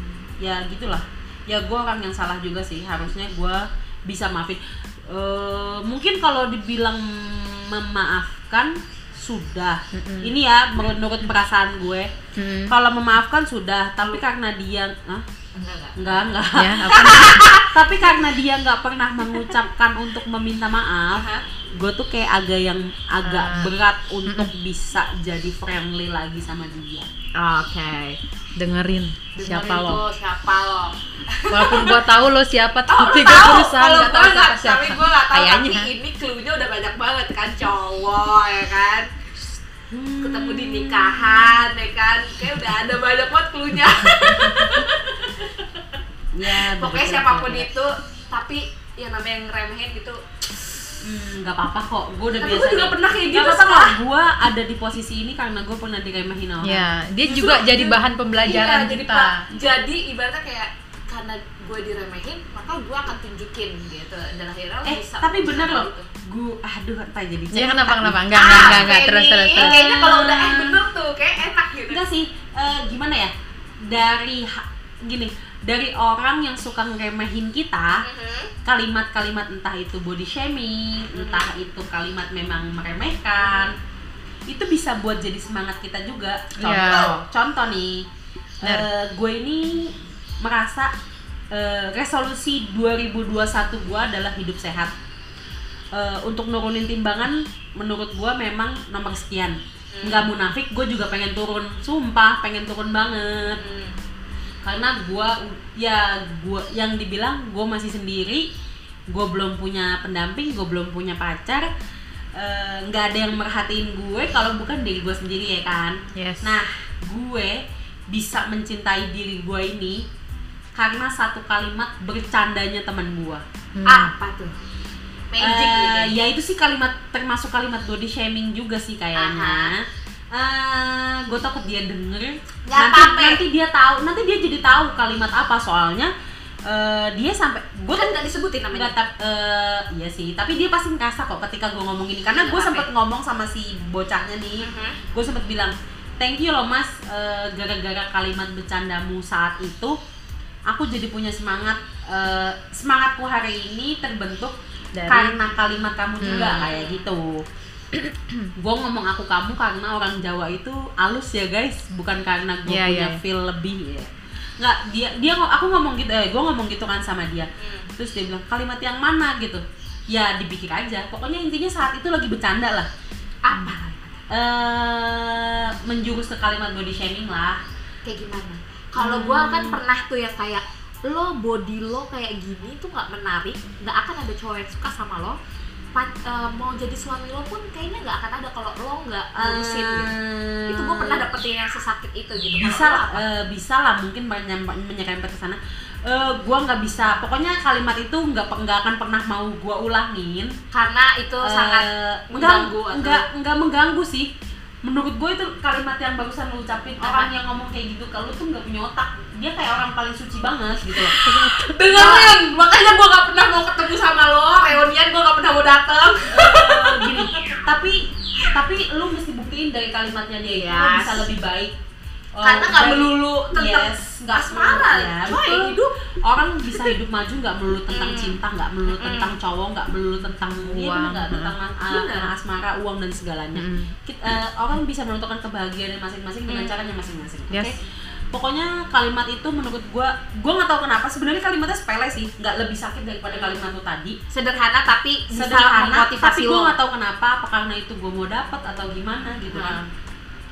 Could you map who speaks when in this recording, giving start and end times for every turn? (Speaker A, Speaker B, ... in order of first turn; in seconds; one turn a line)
Speaker A: 0.4-12.1
Speaker B: 9.9-10.3
Speaker B: 12.3-12.7
Speaker A: 12.7-15.2
Speaker C: 15.5-16.3
Speaker A: 16.0-27.1
Speaker B: 16.5-17.4
Speaker C: 16.8-17.7
Speaker C: 21.1-21.4
Speaker B: 23.2-23.7
Speaker B: 24.2-24.5
Speaker C: 27.4-28.2
Speaker B: 28.6-30.0
Speaker C: 29.3-32.0
Speaker B: 31.5-35.9
Speaker C: 32.9-39.1
Speaker A: 39.9-41.5
Speaker C: 40.2-45.6
Speaker A: 46.3-47.7
Speaker C: 46.5-50.2
Speaker A: 51.0-56.9
Speaker C: 52.4-54.0
Speaker B: 56.6-59.4
Speaker C: 57.3-66.1
Speaker A: 64.8-68.9
Speaker B: 67.5-69.8
Speaker C: 68.3-72.0
Speaker A: 69.5-70.8
Speaker A: 71.9-73.3
Speaker A: 73.8-78.0
Speaker C: 78.0-78.5
Speaker A: 78.6-83.7
Speaker C: 81.2-81.5
Speaker C: 83.4-83.7
Speaker A: 84.5-88.0
Speaker B: 86.6-87.1
Speaker C: 86.8-87.2
Speaker A: 88.6-90.9
Speaker B: 88.6-88.9
Speaker A: 91.5-94.9
Speaker A: 95.9-103.6
Speaker C: 99.9-100.3
Speaker C: 103.6-103.9
Speaker A: 104.6-108.5
Speaker A: 109.1-111.7
Speaker A: 112.3-117.5
Speaker B: 116.1-116.6
Speaker A: 118.1-120.0
Speaker A: 120.8-123.4
Speaker B: 123.8-124.1
Speaker C: 123.8-124.6
Speaker C: 125.3-126.1
Speaker A: 125.4-136.1
Speaker C: 129.1-129.7
Speaker C: 132.7-133.4
Speaker A: 136.7-138.1
Speaker C: 137.9-138.9
Speaker A: 138.7-149.9
Speaker C: 142.3-142.9
Speaker C: 144.6-145.0
Speaker A: 150.7-154.5
Speaker B: 154.9-155.4
Speaker A: 155.1-157.4
Speaker B: 156.2-156.6
Speaker C: 156.3-157.0
Speaker B: 157.9-158.5
Speaker A: 158.6-172.9
Speaker B: 162.7-163.2
Speaker C: 167.6-167.9
Speaker C: 173.4-174.2
Speaker A: 174.3-177.6
Speaker C: 178.0-185.4
Speaker A: 179.0-179.8
Speaker C: 185.9-190.1
Speaker A: 189.3-191.2
Speaker C: 190.7-193.2
Speaker A: 192.6-200.5
Speaker C: 200.7-203.2
Speaker A: 201.4-204.3
Speaker A: 204.8-211.2
Speaker C: 207.0-207.3
Speaker B: 211.2-211.8
Speaker C: 211.4-217.6
Speaker A: 211.9-212.3
Speaker A: 216.3-221.7
Speaker C: 220.4-221.3
Speaker A: 222.3-237.8
Speaker C: 222.4-225.8
Speaker C: 227.9-229.3
Speaker B: 230.6-231.5
Speaker C: 231.9-232.3
Speaker B: 233.5-233.9
Speaker C: 236.5-236.9
Speaker A: 238.3-244.2
Speaker C: 243.3-243.7
Speaker C: 244.3-246.7
Speaker A: 245.3-249.8
Speaker C: 249.5-249.8